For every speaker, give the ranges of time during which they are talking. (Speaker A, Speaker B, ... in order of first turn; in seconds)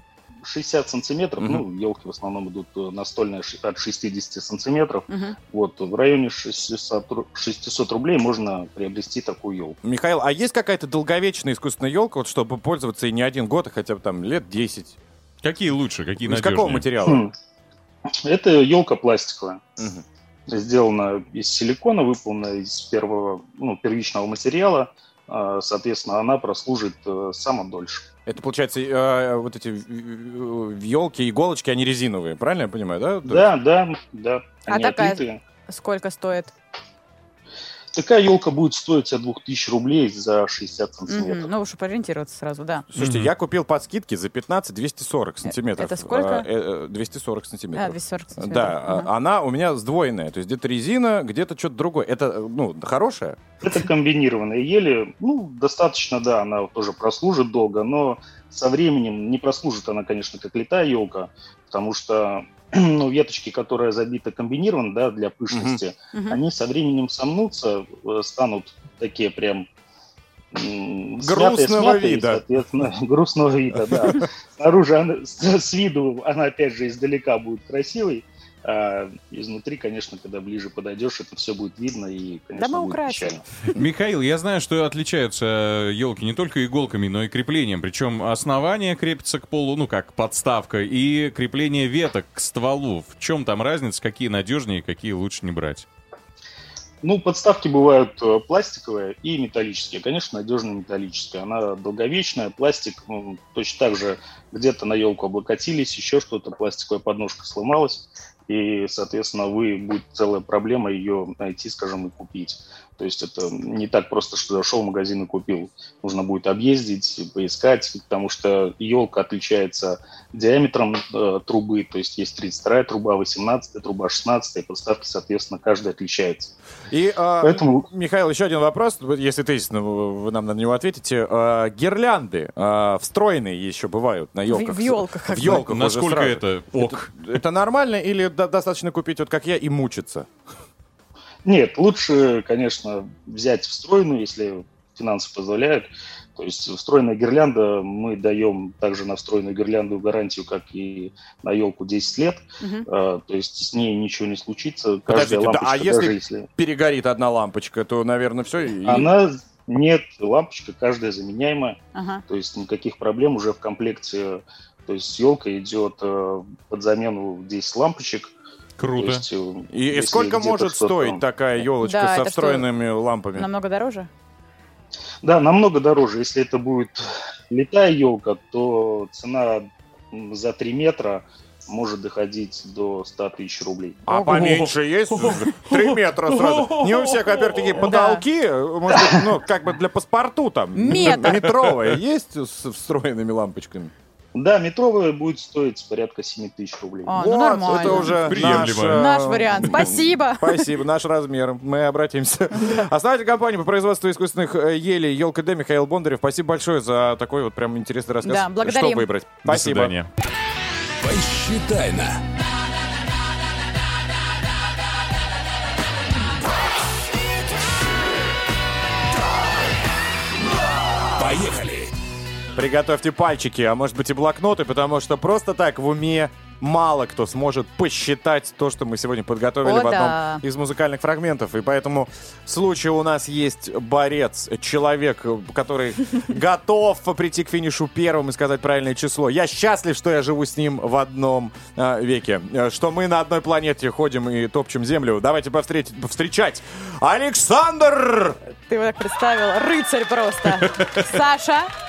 Speaker A: 0.4-9.8, 17.0-17.3, 18.2-19.7, 20.5-28.1, 33.2-35.4, 37.9-41.5, 53.6-69.7, 70.5-83.4, 97.0-126.5, 127.4-127.9, 141.4-156.5, 158.8-168.3, 169.0-171.2, 175.2-184.0, 188.9-189.2, 194.3-198.0
Speaker B: 5.1-5.3, 34.7-36.5, 41.1-42.9, 45.4-46.5, 47.7-49.1, 66.1-66.4, 82.5-83.4, 134.5-135.7, 152.6-152.9, 161.9-162.2, 171.8-172.7, 173.3-174.1, 187.8-188.2, 190.7-191.5, 197.1-200.7, 202.6-202.8, 208.2-209.1, 229.6-230.4, 248.7-251.7
Speaker C: 9.8-15.0, 16.2-17.2, 19.8-20.0, 28.2-33.5, 42.9-53.6, 65.5-65.8, 71.2-72.4, 126.9-140.3, 155.1-159.1, 169.7-173.5, 184.1-193.9, 197.1-210.0, 222.5-248.4
Speaker D: 15.4-16.9, 43.0-43.3, 83.7-95.8, 135.5-137.1, 168.8-169.2, 184.2-187.6, 198.1-199.1, 209.4-210.1, 250.6-251.1
Speaker E: 211.0-212.2, 221.1-221.9